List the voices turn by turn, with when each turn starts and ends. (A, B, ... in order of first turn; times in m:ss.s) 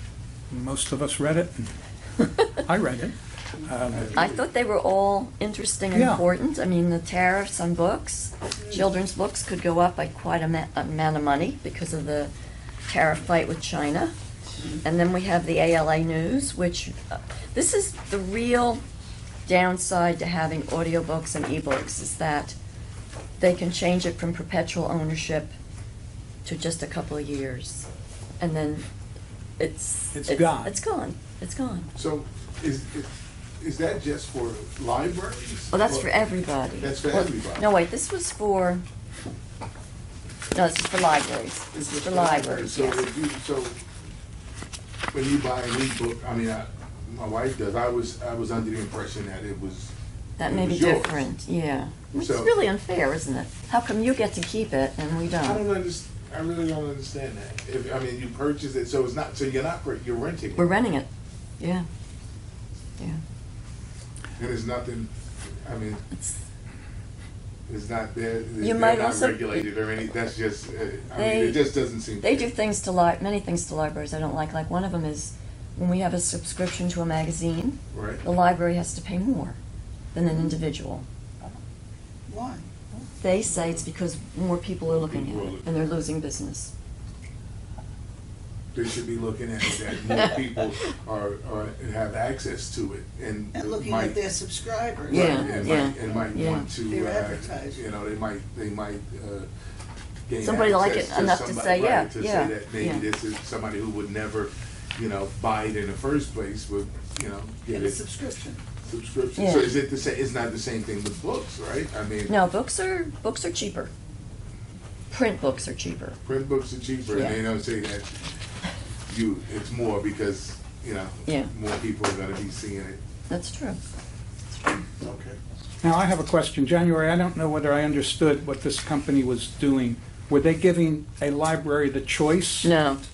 0:00.5-0:04.2 A
0:03.9-0:04.4 B
0:04.2-0:12.3 C
0:05.9-0:06.2 A
0:12.9-0:14.1 C
0:14.8-0:18.8 C
0:19.5-0:22.6 C
0:23.4-0:25.5 C
0:26.4-0:27.9 C
0:28.4-0:28.9 C
0:29.6-0:31.9 C
0:30.1-0:30.8 A
0:32.0-0:36.1 B
0:35.7-0:38.8 C
0:36.8-0:37.7 B
0:40.5-0:43.1 C
0:41.7-0:43.8 B
0:45.1-0:49.9 B
0:50.4-0:55.6 C
0:50.4-0:51.2 B
0:52.2-0:52.6 B
0:55.4-1:00.7 B
1:00.6-1:01.9 C
1:04.4-1:06.0 B
1:07.7-1:12.5 B
1:08.6-1:09.7 C
1:11.2-1:11.7 C
1:12.2-1:19.6 C
1:17.9-1:18.2 B
1:20.1-1:21.1 C
1:22.3-1:23.0 D
1:23.2-1:26.7 C
1:24.9-1:25.7 B
1:28.7-1:34.2 B
1:30.1-1:30.3 C
1:33.5-1:36.2 D
1:35.1-1:39.5 B
1:35.1-1:36.7 C
1:36.7-1:37.8 D
1:40.3-1:48.0 B
1:40.4-1:43.1 C
1:47.7-1:48.6 D
1:48.8-1:52.4 B
1:49.4-1:49.7 C
1:52.3-1:53.9 C
1:55.1-1:56.2 C
1:56.2-1:58.1 B
1:57.1-1:57.4 C
1:59.1-2:03.0 B
2:03.3-2:03.8 C
2:05.0-2:05.4 B
2:05.8-2:12.7 A
2:12.6-2:13.0 C